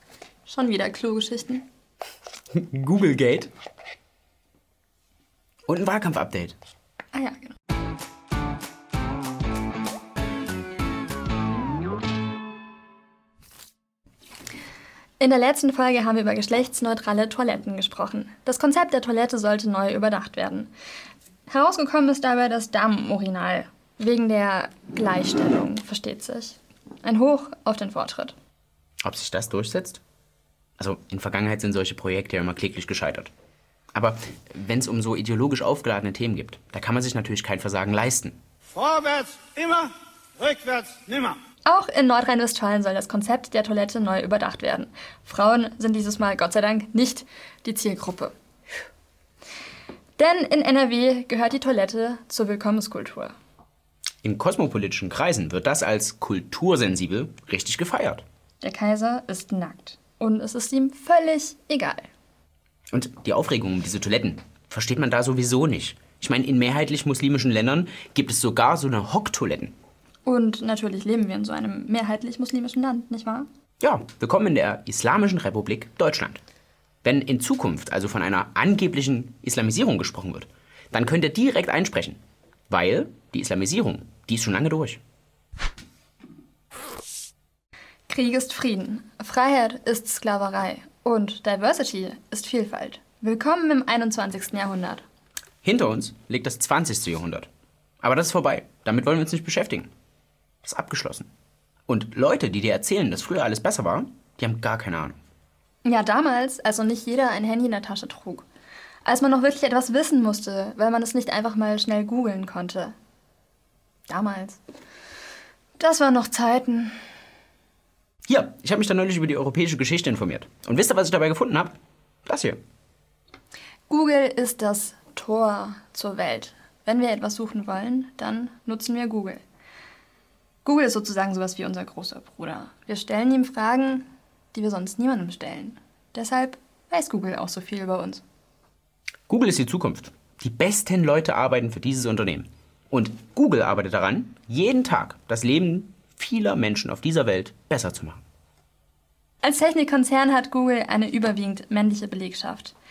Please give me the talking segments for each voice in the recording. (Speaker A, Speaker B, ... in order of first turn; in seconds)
Speaker A: 0.5-1.6, 7.1-7.5, 15.2-20.7, 21.5-28.4, 41.7-48.3, 50.2-53.3, 58.6-62.1, 70.2-73.5, 88.1-95.0, 105.8-108.5, 109.0-112.9, 114.1-114.6, 115.8-116.9, 123.9-129.4, 130.6-138.2, 149.4-152.7
Speaker B: 2.5-3.5, 5.7-6.5, 29.0-30.0, 30.8-33.3, 33.9-38.4, 54.2-58.2, 62.9-69.7, 73.8-76.4, 77.0-85.0, 95.6-97.5, 98.0-99.9, 100.6-101.3, 101.9-105.2, 118.3-122.6, 139.3-148.2
Speaker C: 38.7-41.4